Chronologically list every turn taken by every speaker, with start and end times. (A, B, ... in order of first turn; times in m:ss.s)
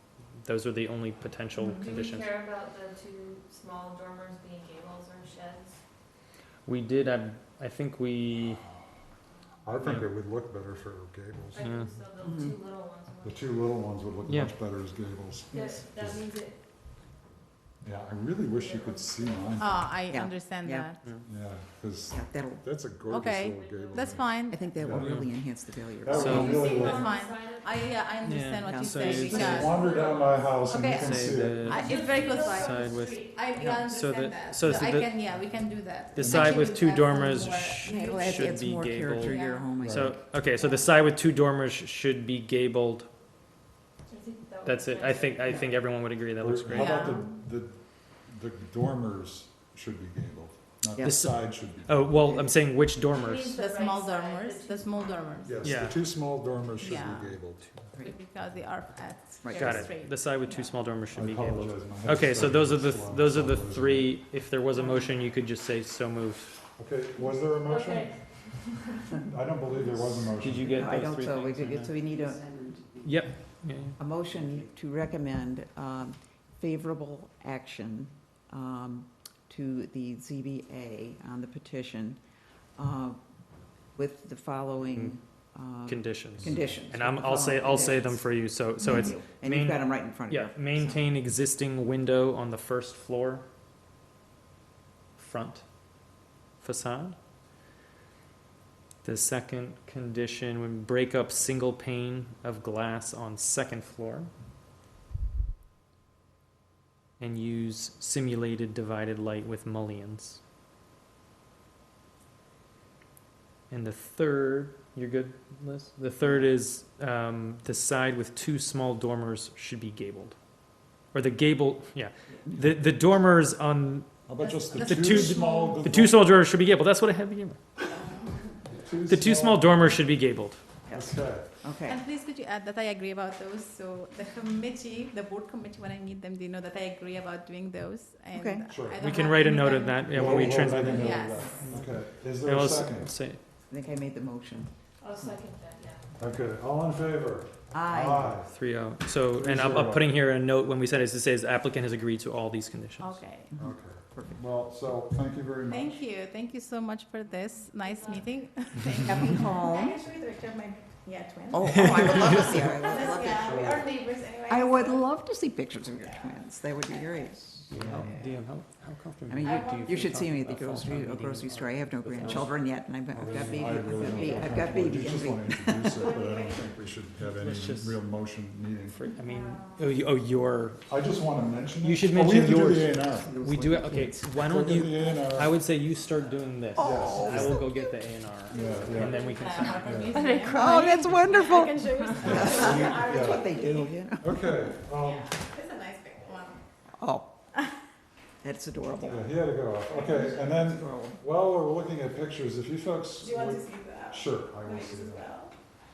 0:00.4-0:02.3 A
0:01.7-0:05.8 B
0:06.6-0:08.6 A
0:09.6-0:11.7 C
0:11.5-0:13.6 B
0:11.6-0:11.9 A
0:12.2-0:12.6 D
0:13.2-0:16.3 C
0:14.2-0:14.5 A
0:15.5-0:16.6 B
0:17.8-0:19.9 C
0:18.4-0:19.7 B
0:19.5-0:21.1 E
0:20.1-0:20.9 D
0:21.2-0:25.3 C
0:22.1-0:22.7 D
0:23.0-0:24.7 E
0:23.4-0:24.3 B
0:24.5-0:26.9 D
0:24.9-0:25.3 A
0:26.0-0:27.1 C
0:26.0-0:26.6 A
0:26.1-0:28.1 B
0:26.9-0:38.2 E
0:28.2-0:29.7 A
0:28.6-0:29.2 D
0:29.1-0:32.0 C
0:29.3-0:30.6 B
0:30.7-0:35.2 A
0:31.6-0:33.4 B
0:33.6-0:33.8 D
0:36.1-0:43.1 A
0:36.2-0:36.7 C
0:37.8-0:40.2 D
0:39.2-0:39.7 E
0:39.8-0:40.2 C
0:44.1-0:45.6 B
0:44.6-0:47.2 A
0:46.4-0:52.2 C
0:46.7-0:47.3 E
0:50.9-0:51.2 D
0:51.0-0:53.6 A
0:52.2-0:52.6 D
0:53.1-0:55.2 B
0:53.5-0:55.7 E
0:55.4-0:57.9 C
0:55.6-0:56.0 A
0:56.7-0:57.4 E
0:58.0-1:00.7 E
0:59.4-0:59.8 D
0:59.6-1:06.6 A
1:01.1-1:04.2 C
1:06.8-1:08.1 C
1:07.6-1:09.0 B
1:09.1-1:11.0 C
1:10.4-1:11.9 A
1:10.7-1:12.9 D
1:13.0-1:14.0 A
1:14.0-1:22.2 D
1:22.8-1:23.2 D
1:23.9-1:31.0 D
1:25.9-1:33.4 A
1:35.2-1:35.6 A
1:36.6-1:37.2 A
1:39.0-1:44.3 A
1:47.2-1:50.4 A
1:53.7-2:00.4 A
2:01.1-2:04.1 A
2:04.3-2:06.3 C
2:04.4-2:05.9 E
2:04.7-2:07.6 A
2:07.9-2:08.5 E
2:08.7-2:10.0 C
2:09.0-2:10.6 A
2:10.9-2:12.0 D
2:10.9-2:11.5 C
2:11.8-2:21.7 E
2:18.3-2:18.6 D
2:18.7-2:19.0 C
2:19.0-2:23.4 A
2:20.1-2:23.1 C
2:23.7-2:24.7 D
2:25.0-2:26.0 B
2:26.2-2:28.5 C
2:27.7-2:28.3 D
2:28.5-2:33.2 A
2:29.3-2:30.1 C
2:33.0-2:33.5 E
2:33.6-2:36.0 C
2:33.6-2:34.4 D
2:35.7-2:45.1 E
2:37.3-2:38.3 B
2:39.0-2:40.0 D
2:41.5-2:43.7 D
2:42.6-2:42.9 C
2:43.4-2:43.8 C
2:44.5-2:47.8 D
2:45.9-2:47.2 E
2:47.7-2:48.1 C
2:47.7-2:52.6 A
2:47.9-2:48.4 E
2:49.3-2:56.1 D
2:49.4-2:49.9 E
2:53.1-2:59.0 C
2:53.3-2:54.5 A
2:55.9-2:56.9 E
2:57.2-2:58.0 A
2:58.9-3:00.8 A
2:59.1-2:59.8 E
3:00.9-3:03.3 C
3:01.8-3:10.1 A
3:03.1-3:04.2 D
3:04.4-3:05.6 C
3:06.8-3:07.9 D
3:06.8-3:07.6 C
3:08.5-3:09.3 C
3:08.5-3:16.6 E
3:09.8-3:10.8 C
3:10.1-3:11.1 B
3:10.4-3:14.3 D
3:12.2-3:13.5 C
3:14.2-3:15.4 C
3:17.0-3:17.3 D
3:18.4-3:19.4 D
3:19.0-3:25.4 C
3:19.8-3:20.5 E
3:20.4-3:21.2 D
3:23.2-3:25.5 E